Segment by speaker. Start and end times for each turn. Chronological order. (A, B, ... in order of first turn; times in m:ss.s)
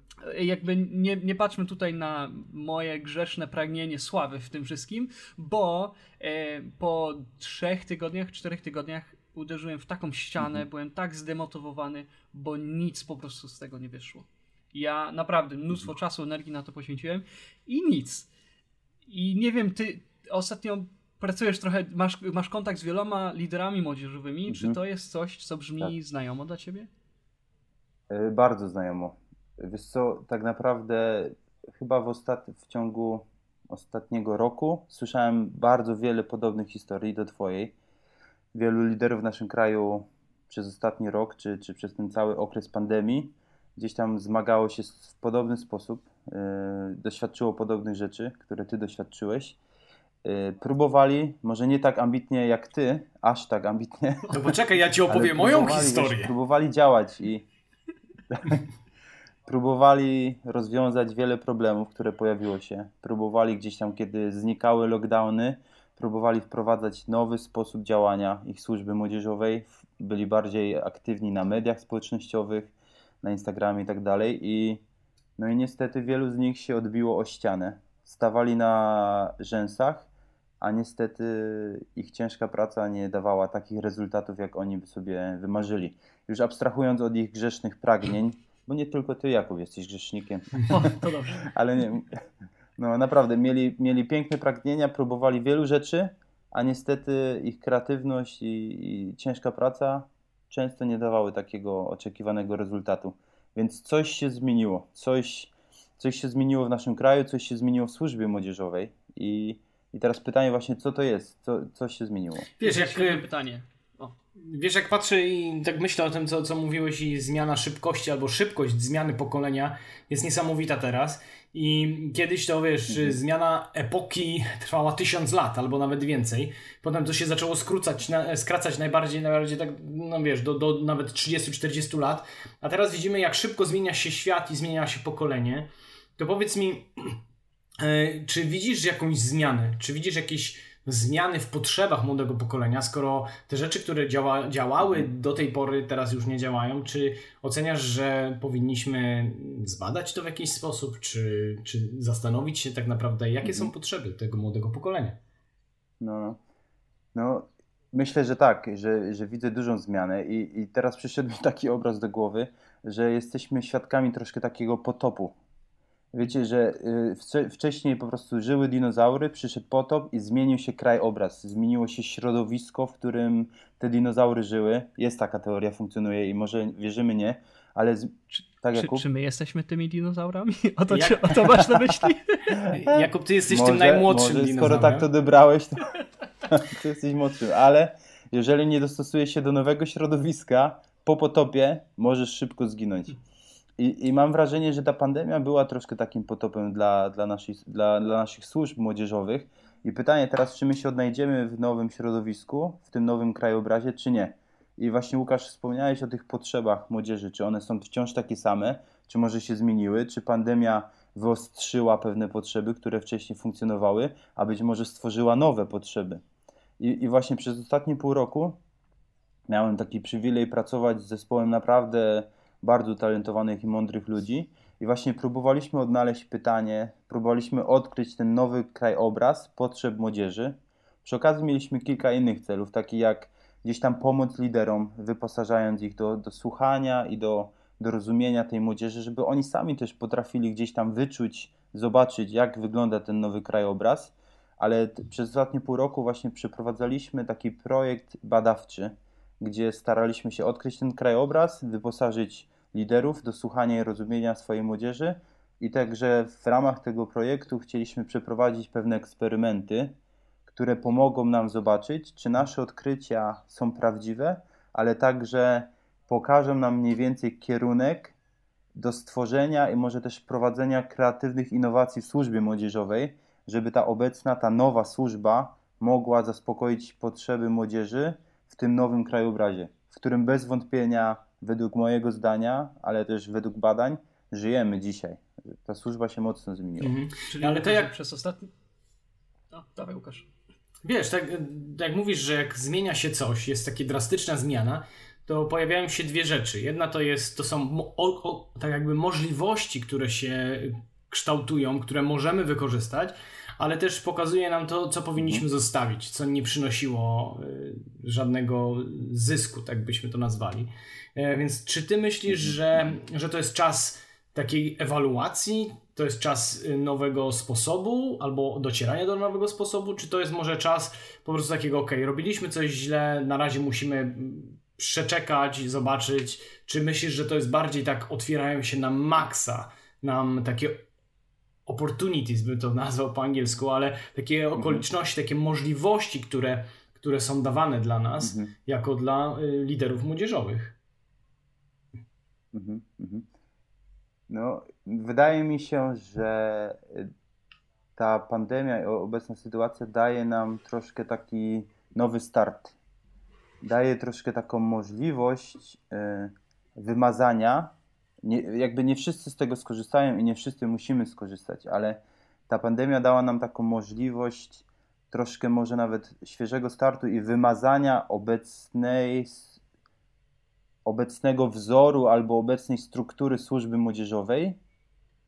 0:00.2-0:18.3 A
0:19.0-0:26.9 A
0:24.5-0:24.8 B
0:28.1-0:37.7 B
0:38.5-0:49.6 B
0:50.2-0:54.5 B
0:54.3-0:56.3 C
0:55.1-0:57.4 B
0:58.3-0:58.6 B
0:59.4-1:14.8 B
1:15.4-1:20.1 B
1:20.6-1:32.2 B
1:30.7-1:31.5 A
1:32.8-1:52.5 B
1:52.6-1:53.2 C
1:52.6-1:54.1 A
1:54.4-2:17.2 C
2:02.9-2:03.2 B
2:17.8-2:35.2 C
2:33.4-2:33.7 B
2:36.0-2:36.4 B
2:37.1-2:45.4 B
2:46.1-2:59.0 B
2:58.3-3:02.6 A
3:00.9-3:01.5 C
3:02.6-3:05.1 C
3:02.7-3:05.9 B
3:06.4-3:13.2 B
3:13.8-3:36.2 B
3:36.8-3:38.6 B
3:39.5-4:19.9 B
4:20.5-4:28.2 B
4:28.7-4:46.9 B
4:46.8-4:47.9 C
4:47.3-4:48.5 A
4:49.5-4:50.3 A
4:50.8-5:30.8 C
5:05.2-5:05.4 B
5:12.3-5:12.6 B
5:31.6-5:40.7 C
5:34.6-5:34.8 B
5:38.2-5:38.5 B
5:42.5-5:43.3 B
5:44.3-5:47.1 B
5:48.0-5:52.8 B
5:53.6-6:09.6 B
6:10.8-6:14.6 B